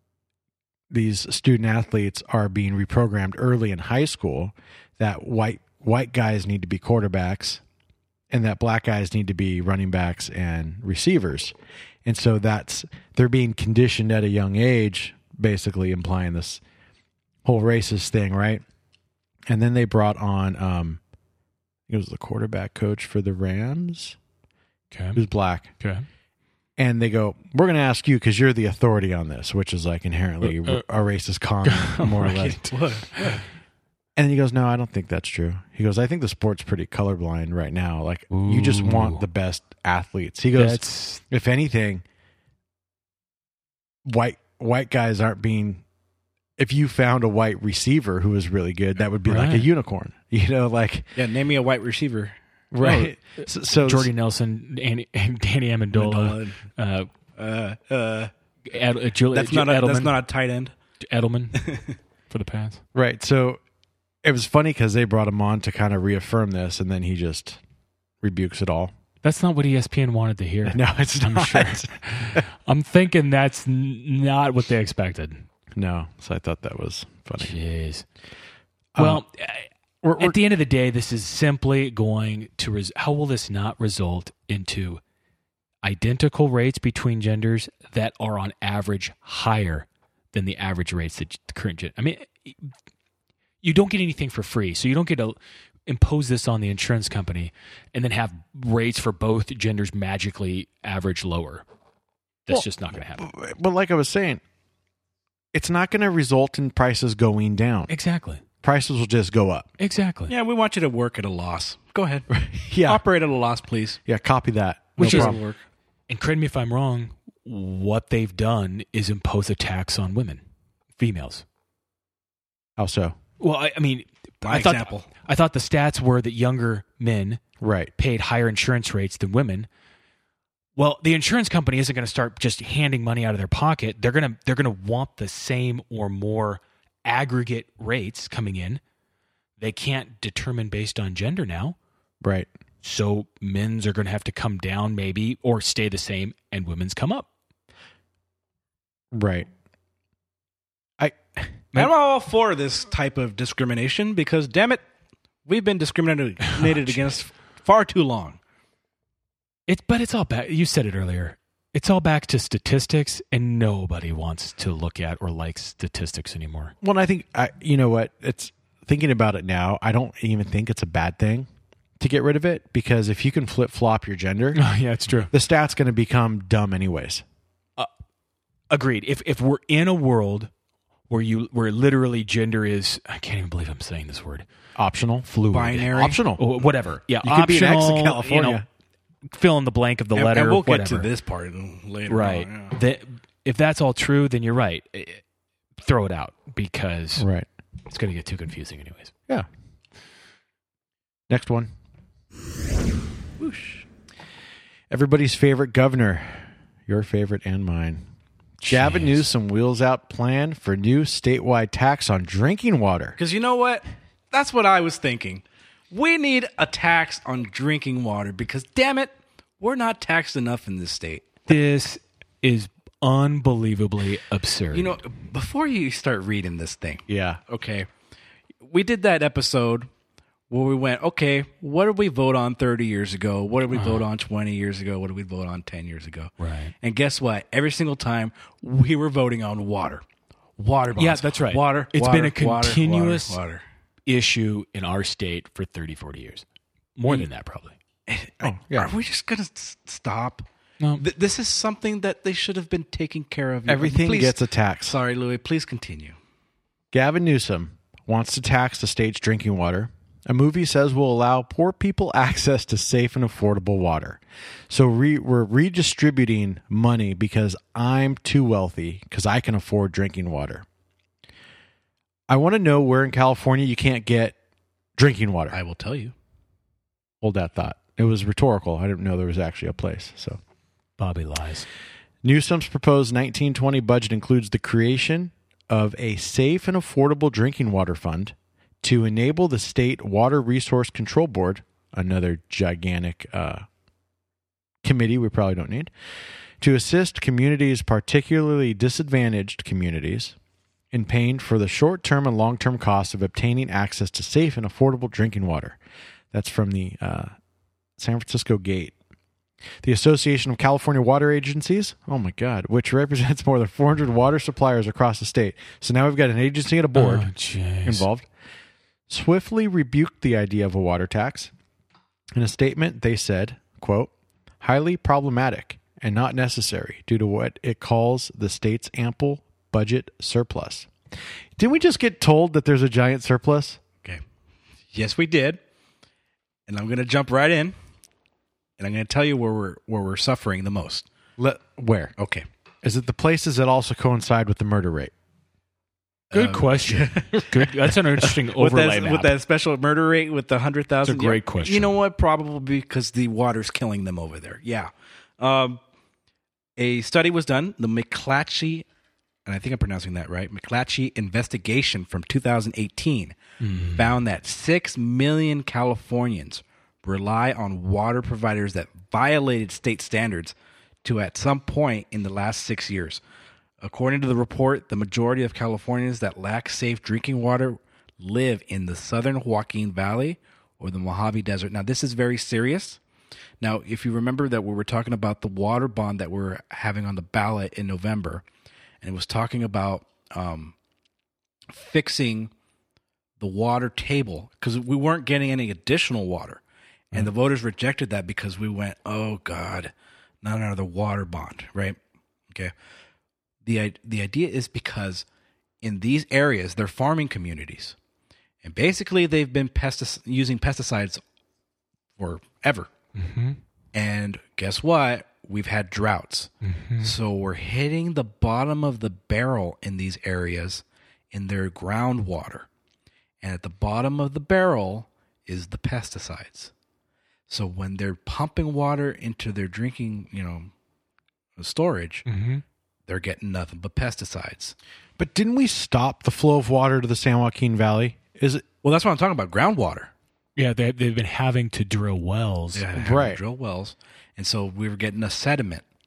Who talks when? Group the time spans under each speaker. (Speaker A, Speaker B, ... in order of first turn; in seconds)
Speaker A: 0.9-7.6, 8.3-11.5, 12.0-16.6, 17.4-18.6, 19.5-21.0, 21.9-24.2, 25.1-25.7, 26.8-32.6, 34.1-42.0, 44.0-45.8, 46.6-51.1, 52.7-54.1, 62.9-63.6, 64.2-67.6, 68.2-68.9, 70.7-72.4, 75.7-77.5, 78.9-79.2, 80.0-80.4, 102.5-104.4, 105.5-107.9, 108.6-109.7, 112.3-113.0, 114.0-115.4, 122.8-123.2, 127.6-127.9, 142.2-142.5, 149.1-149.5, 151.0-151.6, 166.8-171.5, 172.0-174.6, 175.3-177.2, 184.8-185.3, 185.9-186.4, 187.2-188.6, 197.2-197.5, 201.3-201.7, 204.9-208.0, 208.6-213.2, 227.1-227.4, 248.4-248.9, 253.7-255.0, 256.9-270.6, 272.3-274.4, 275.0-275.6, 277.2-280.4, 282.2-293.6, 294.8-295.9, 296.6-300.4, 300.9-305.8, 306.3-307.3, 308.0-308.9, 309.8-317.3, 317.8-318.3, 319.1-321.5, 322.3-330.9, 331.6-333.8, 341.4-342.1, 342.8-345.1, 435.2-438.6, 442.9-443.4
Speaker B: 24.9-25.2, 25.8-26.1, 30.4-30.8, 31.6-32.6, 38.3-39.2, 40.5-41.2, 49.2-49.7, 52.8-53.1, 53.8-57.1, 58.6-60.1, 61.0-61.7, 62.3-62.8, 69.2-75.5, 77.4-78.0, 79.0-85.0, 85.8-92.7, 93.6-101.6, 102.5-103.2, 107.9-108.4, 109.8-110.3, 115.0-115.4, 116.1-120.4, 121.0-121.4, 123.4-127.4, 128.0-129.7, 130.8-138.8, 139.6-141.8, 142.8-147.3, 159.7-166.7, 174.5-175.3, 178.7-180.5, 181.1-184.4, 185.2-188.6, 189.3-191.1, 192.1-195.2, 195.8-197.3, 197.9-199.1, 208.6-209.2, 221.5-225.0, 233.7-234.0, 236.4-236.7, 241.0-243.4, 244.1-246.4, 246.9-247.8, 281.0-281.6, 316.9-318.0, 346.3-349.3, 351.0-351.9, 363.6-364.1, 413.1-413.6, 416.6-417.1, 432.2-432.6, 440.6-442.9
Speaker C: 32.2-33.4, 51.1-52.3, 55.9-56.6, 57.4-58.3, 59.3-60.7, 61.5-61.9, 110.3-114.0, 115.0-115.6, 124.4-125.1, 151.7-154.8, 155.4-158.4, 185.5-186.2, 190.1-192.8, 203.4-203.8, 213.2-221.3, 224.7-227.9, 228.6-229.9, 230.5-240.0, 240.6-243.6, 248.1-250.4, 251.0-256.2, 275.5-276.1, 334.9-335.6, 336.7-337.7, 338.8-341.1, 342.2-342.4, 346.3-355.8, 356.8-358.9, 359.4-363.3, 363.9-373.2, 373.8-383.0, 383.6-388.4, 389.0-390.7, 391.7-392.5, 393.4-396.6, 397.1-399.9, 400.4-402.0, 403.6-405.2, 405.8-407.9, 408.6-411.2, 412.2-412.9, 413.9-416.5, 417.0-422.7, 423.4-426.7, 427.5-430.7, 431.6-432.2, 433.1-434.7, 438.8-440.1, 442.7-445.8